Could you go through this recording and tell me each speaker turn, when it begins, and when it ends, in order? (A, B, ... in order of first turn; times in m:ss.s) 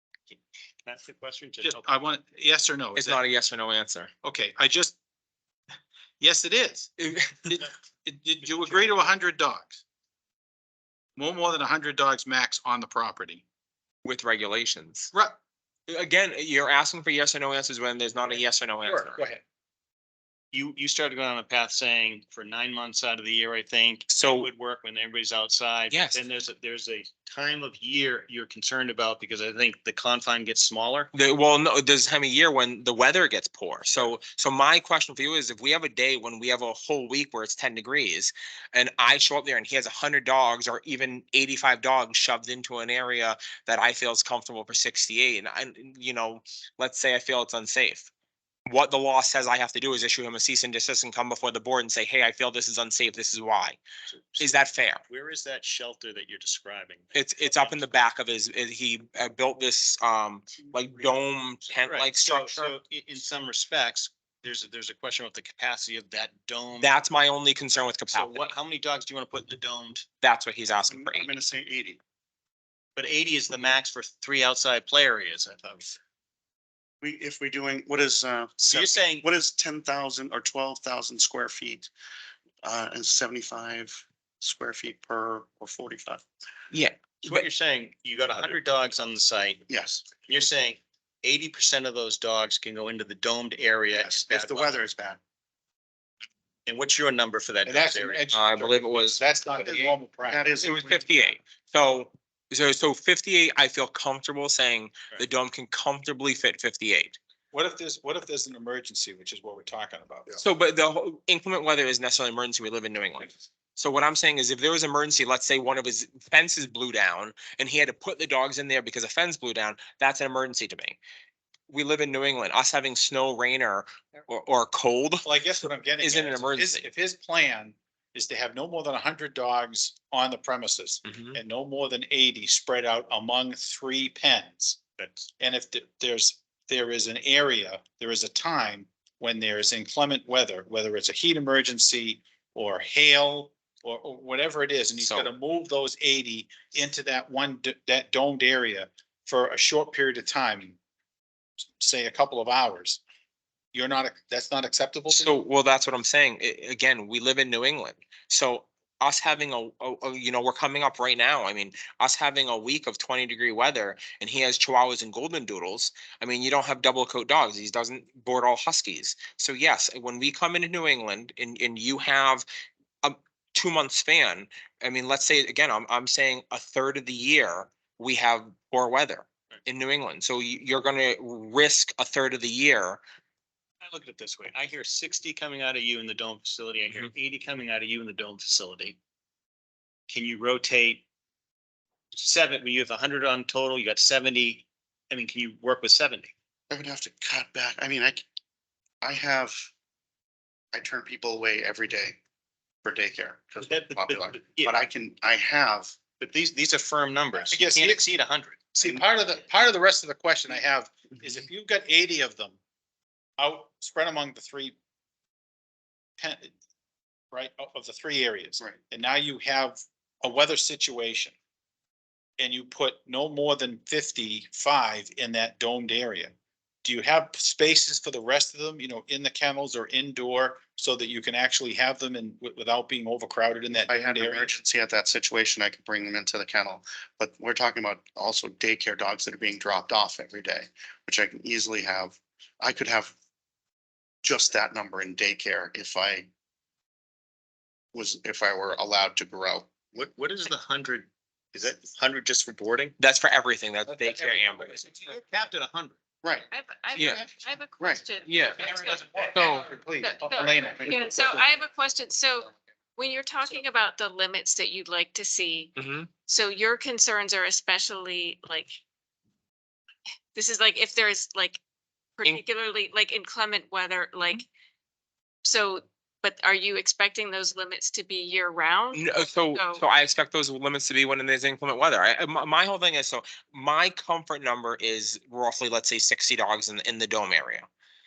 0:00.3-0:01.8 A
0:01.6-0:03.2 B
0:02.9-0:04.1 C
0:04.2-0:05.0 B
0:06.2-0:06.9 B
0:07.0-0:07.7 C
0:07.6-0:09.8 B
0:08.4-0:08.9 C
0:11.2-0:13.4 B
0:14.0-0:15.1 C
0:15.9-0:19.2 C
0:18.8-0:19.4 B
0:20.5-0:31.1 A
0:24.1-0:24.5 C
0:25.9-0:26.2 C
0:31.1-0:48.1 C
0:48.7-0:53.8 C
0:54.4-0:58.0 A
0:54.4-0:55.0 C
0:57.1-1:02.7 C
1:01.7-1:07.0 A
1:06.8-1:08.5 C
1:08.1-1:10.1 A
1:10.2-1:11.3 C
1:10.9-1:12.0 D
1:13.0-1:16.0 A
1:17.0-1:21.9 D
1:18.6-1:19.3 A
1:22.6-1:26.2 D
1:26.7-1:27.4 C
1:27.2-1:34.7 A
1:29.7-1:30.1 D
1:34.0-1:35.2 D
1:36.7-1:38.2 A
1:37.6-1:40.4 B
1:38.3-1:39.9 C
1:40.2-1:41.1 D
1:40.6-1:47.2 C
1:47.5-1:50.4 B
1:50.4-2:01.0 C
2:01.7-2:05.3 C
2:05.2-2:14.8 B
2:06.0-2:06.8 C
2:11.1-2:11.4 C
2:15.0-2:15.3 A
2:15.4-2:30.8 B
2:25.0-2:25.3 C
2:31.8-2:33.0 B
2:33.7-2:35.3 B
2:35.1-2:52.4 C
2:53.0-3:03.0 C
3:03.8-3:09.0 A
3:10.1-3:11.0 A
3:12.1-3:16.3 A
3:16.7-3:18.2 D
3:19.0-3:19.7 D
3:20.7-3:22.2 D
3:22.8-3:26.0 D
3:23.6-3:24.8 A
3:26.2-3:28.7 A
3:27.4-3:28.0 B
3:28.8-3:32.6 B
3:28.8-3:29.0 D
3:33.4-3:34.7 B
3:36.2-3:36.5 B
3:37.3-3:41.3 B
3:42.4-3:54.5 B
3:53.7-4:03.1 D
4:04.2-4:06.3 D
4:07.9-4:09.9 D
4:09.9-4:12.9 A
4:13.0-4:14.8 C
4:13.9-4:14.9 B
4:14.8-4:16.0 A
4:16.2-4:16.5 D
4:16.5-4:19.1 E
4:16.9-4:17.3 C
4:18.2-4:18.7 C
4:18.6-4:21.4 B
4:19.3-4:19.7 C
4:20.0-4:25.7 E
4:25.8-4:26.1 C
4:26.3-4:28.8 E
4:30.3-4:31.6 E
4:32.2-4:34.4 E
4:35.4-4:39.8 E
4:38.9-4:47.7 C